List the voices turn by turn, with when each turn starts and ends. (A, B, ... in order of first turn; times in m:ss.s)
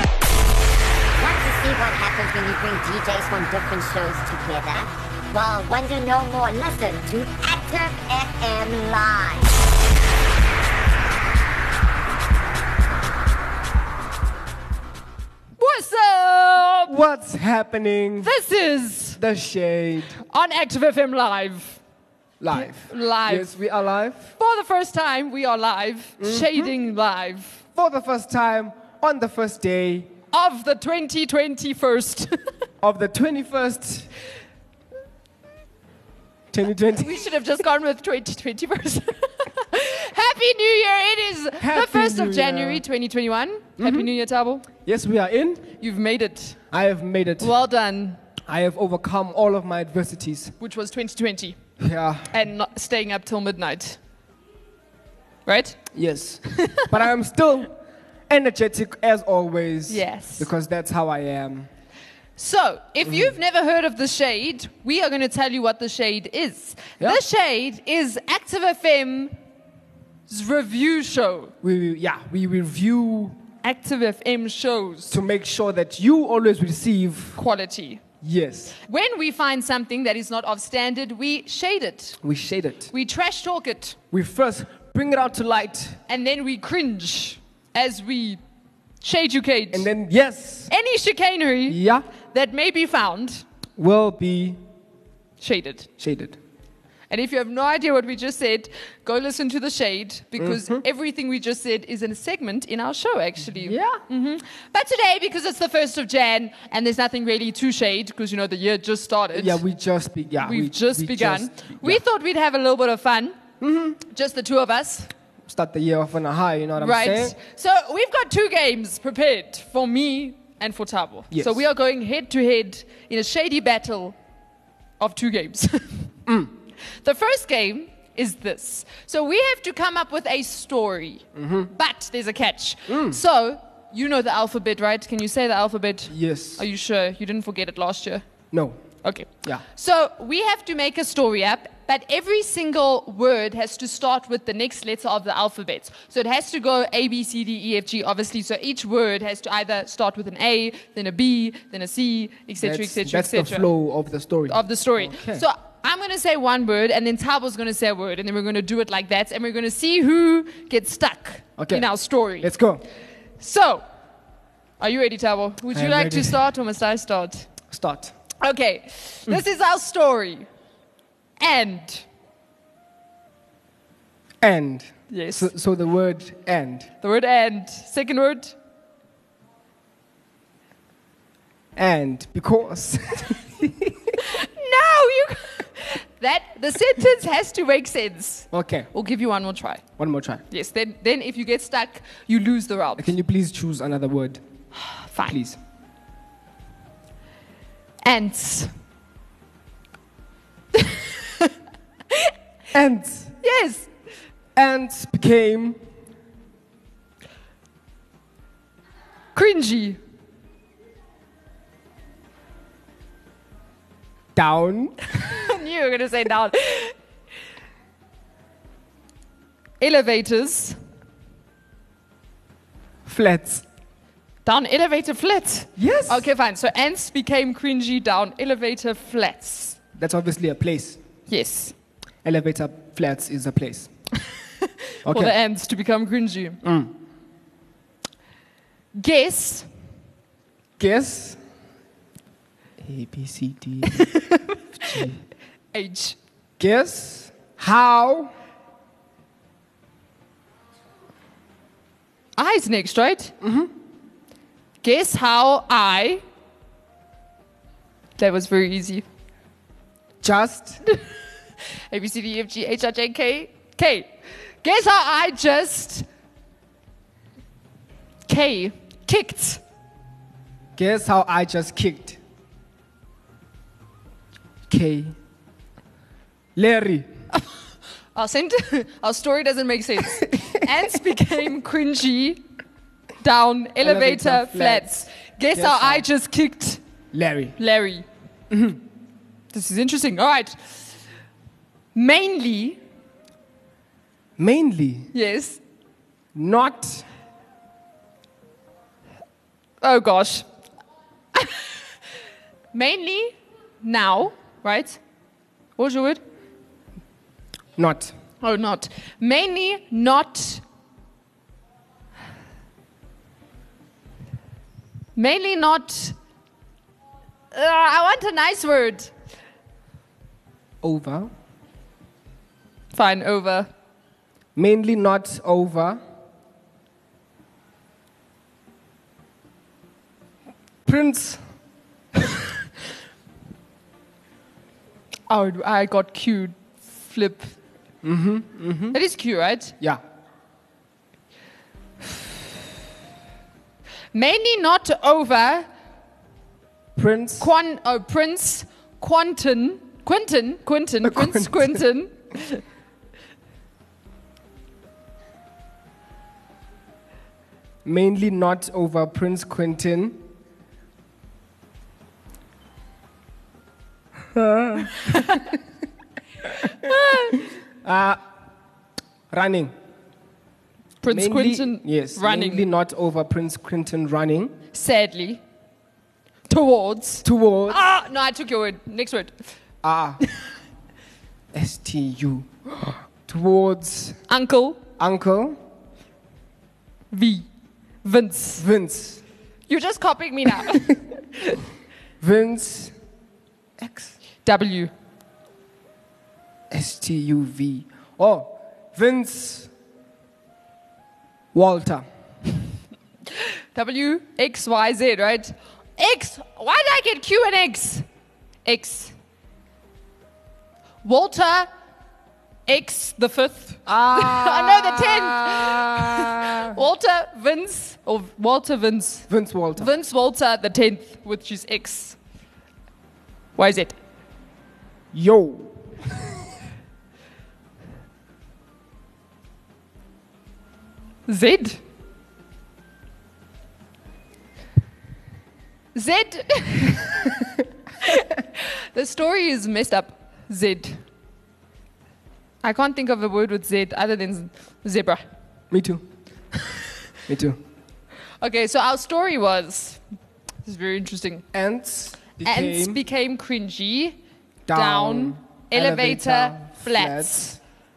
0:01.2-0:09.6 A
0:15.6-0:16.9 B
0:16.9-0:18.3 C
0:18.2-0:19.2 B
0:19.2-0:20.2 C
0:20.2-0:21.8 B
0:22.4-0:24.3 C
0:22.5-0:23.6 B
0:24.4-0:27.6 B
0:26.2-0:26.7 C
0:27.8-0:30.1 C
0:30.3-0:32.5 B
0:32.8-0:34.1 C
0:36.5-0:37.2 C
0:36.9-0:44.7 B
0:41.6-0:42.8 C
0:43.8-0:44.1 C
0:44.7-0:45.7 C
0:45.8-0:46.6 B
0:46.7-0:47.5 C
0:47.4-0:48.2 B
0:48.5-0:50.5 C
0:50.6-0:51.6 B
0:51.8-0:52.3 C
0:52.3-0:54.0 B
0:55.5-0:55.8 B
0:55.9-0:57.7 C
0:56.5-0:56.9 B
0:58.3-1:01.7 C
0:59.9-1:00.5 B
1:02.4-1:09.4 B
1:03.0-1:03.3 C
1:10.3-1:11.5 B
1:11.6-1:13.4 C
1:13.6-1:15.2 B
1:15.1-1:17.4 C
1:17.4-1:18.0 B
1:18.2-1:18.8 C
1:18.8-1:22.2 B
1:22.2-1:22.9 C
1:22.9-1:24.0 B
1:24.1-1:26.0 C
1:26.1-1:28.4 B
1:29.0-1:29.9 B
1:29.7-1:30.7 C
1:30.7-1:33.4 B
1:31.7-1:32.1 C
1:33.8-1:34.6 C
1:35.4-1:35.9 B
1:36.0-1:36.4 C
1:37.1-1:49.6 B
1:40.4-1:40.8 C
1:43.4-1:44.0 C
1:49.3-1:52.0 C
1:50.4-1:53.4 B
1:53.6-1:54.0 C
1:54.0-1:55.1 B
1:55.5-1:57.4 C
1:56.8-2:04.2 B
2:01.3-2:01.6 C
2:05.0-2:06.1 B
2:06.3-2:06.5 C
2:07.0-2:18.2 B
2:11.4-2:11.7 C
2:12.9-2:13.2 C
2:16.1-2:16.6 C
2:18.5-2:18.8 C
2:19.0-2:33.7 B
2:32.6-2:35.4 C
2:34.5-2:42.5 B
2:41.6-2:41.9 C
2:42.4-2:42.8 C
2:43.4-2:43.8 B
2:44.8-2:47.5 B
2:45.7-2:46.5 C
2:47.7-2:48.2 C
2:48.4-2:50.5 B
2:51.4-2:52.1 B
2:54.4-2:56.9 C
2:55.1-2:55.5 B
2:57.0-2:58.6 B
3:01.8-3:04.2 C
3:04.2-3:09.8 B
3:08.5-3:08.9 C
3:10.0-3:10.4 C
3:10.5-3:13.1 B
3:13.0-3:14.4 C
3:14.8-3:15.4 B
3:15.3-3:15.6 C
3:18.0-3:18.7 B
3:20.7-3:21.5 B
3:22.7-3:23.4 C
3:23.4-3:23.9 B
3:24.6-3:25.8 C
3:29.4-3:30.0 B
3:34.4-3:35.1 C
3:35.1-3:37.0 B
3:39.8-3:40.8 B
3:43.1-3:43.6 C
3:44.4-3:49.8 B
3:45.8-3:46.3 C
3:50.0-3:51.0 C
3:51.3-3:51.8 B
3:52.2-3:53.9 C
3:54.6-3:56.6 B
3:55.0-3:55.4 C
3:56.6-3:56.9 C
3:59.0-3:59.7 B
4:00.8-4:01.4 C
4:02.8-4:04.1 C
4:03.9-4:05.1 B
4:04.8-4:05.2 C
4:05.7-4:06.2 B
4:06.6-4:08.3 C
4:12.4-4:13.3 B
4:13.4-4:13.7 C
4:14.8-4:16.2 B
4:18.2-4:19.0 B
4:20.2-4:20.8 C
4:21.9-4:24.1 B
4:24.6-4:26.1 B
4:28.3-4:29.6 B
4:30.8-4:32.2 C
4:34.7-4:35.2 C
4:36.6-4:37.1 C
4:38.1-4:42.4 B
4:43.2-4:46.8 B
4:43.8-4:44.9 C
4:45.6-4:46.1 C
4:47.1-4:47.6 C
4:47.6-4:48.1 B
4:48.5-4:48.8 C
4:49.5-4:50.8 B
4:52.0-4:52.8 B
4:54.4-4:55.1 C
4:55.1-4:55.6 B
4:56.4-4:57.1 C
4:59.8-5:00.5 B
5:01.3-5:01.7 B
5:02.7-5:05.0 B
5:05.8-5:06.2 B
5:07.8-5:08.1 C
5:08.4-5:10.6 B
5:15.2-5:16.2 B
5:17.5-5:19.1 B
5:20.8-5:21.3 C
5:22.9-5:23.7 B
5:24.6-5:26.0 C
5:30.9-5:31.4 C
5:35.3-5:37.5 B
5:38.0-5:39.0 C
5:38.9-5:39.8 B
5:44.1-5:45.7 B
5:47.0-5:47.5 C
5:47.4-5:52.6 B
5:51.0-5:51.8 C
5:57.8-6:00.2 C
6:04.3-6:05.5 C
6:06.4-6:08.2 C
6:06.7-6:07.4 B
6:09.3-6:09.7 C
6:11.0-6:12.6 B
6:11.1-6:14.6 C
6:14.7-6:15.4 B
6:16.5-6:19.4 B
6:17.2-6:17.8 C
6:19.8-6:20.2 C
6:21.5-6:24.2 C
6:24.3-6:24.8 B
6:25.0-6:25.6 C
6:27.1-6:27.5 B
6:28.0-6:28.7 B
6:28.6-6:29.2 C
6:29.7-6:31.6 B
6:32.2-6:32.9 C
6:33.8-6:34.1 C
6:34.4-6:34.9 B
6:36.7-6:39.7 C
6:41.5-6:42.1 C
6:43.7-6:48.0 B
6:48.6-6:49.1 B
6:51.0-6:51.7 B
6:52.7-7:02.2 B
6:53.9-6:56.8 C
6:59.3-6:59.9 C
7:03.6-7:04.0 B
7:05.1-7:06.3 C
7:11.3-7:11.8 B
7:15.9-7:17.3 B
7:18.0-7:21.0 B
7:22.6-7:25.2 B
7:25.7-7:26.0 C
7:27.3-7:27.6 C
7:28.4-7:30.0 B
7:30.6-7:31.4 B
7:31.5-7:33.0 C
7:32.4-7:34.2 B
7:34.7-7:37.6 C
7:34.7-7:37.6 B